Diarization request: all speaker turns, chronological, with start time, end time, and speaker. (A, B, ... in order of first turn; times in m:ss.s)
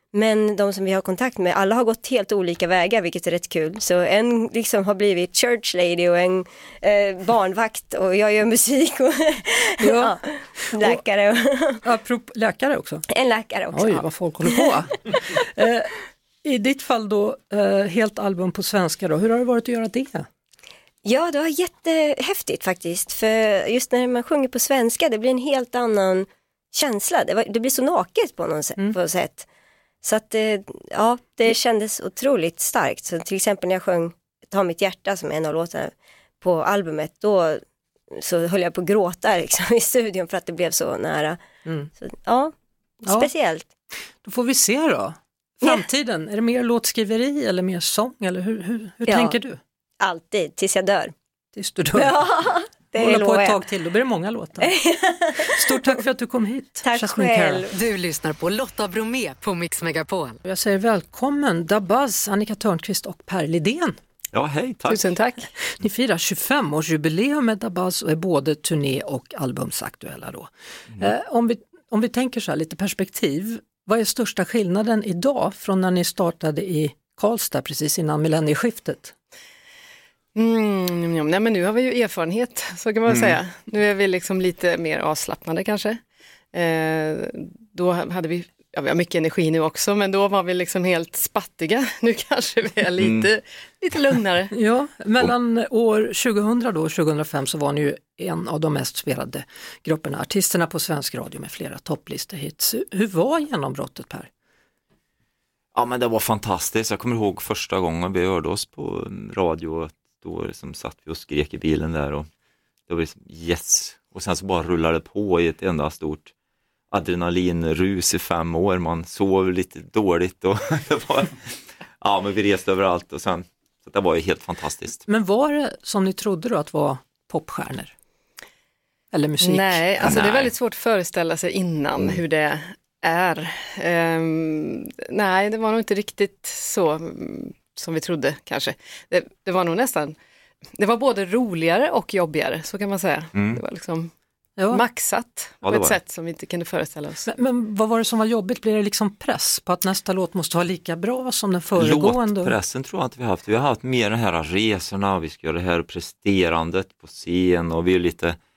0:00.1-0:11.8 A
0:09.8-0:11.0 B
0:11.8-0:13.0 B
0:13.1-0:14.6 A
0:13.7-0:20.3 B
0:21.0-0:29.5 A
0:30.0-0:41.4 A
0:42.0-0:43.7 A
0:44.2-0:49.6 B
0:49.1-0:49.4 A
0:50.0-0:51.1 A
0:51.6-0:52.2 B
0:51.9-0:53.6 A
0:53.0-0:54.7 B
0:54.6-0:55.8 A
0:55.4-0:57.6 B
0:56.8-0:57.8 A
0:57.7-1:00.4 C
1:00.4-1:04.0 B
1:04.3-1:05.0 D
1:04.9-1:05.5 E
1:05.6-1:19.1 B
1:20.4-1:26.0 E
1:23.1-1:23.4 D
1:26.5-1:34.5 E
1:33.0-1:33.3 D
1:34.5-1:44.3 B
1:45.7-1:52.3 D
1:52.9-1:56.3 D
1:56.9-2:05.0 D
2:05.1-2:07.9 B
2:09.1-2:10.2 B
2:09.4-2:20.2 E
2:10.0-2:10.5 D
2:20.8-2:24.1 E
2:23.3-2:23.6 D
2:24.6-2:24.8 B
2:24.7-2:27.3 E
2:25.6-2:26.0 D
2:27.3-2:32.6 B
2:31.8-2:38.4 D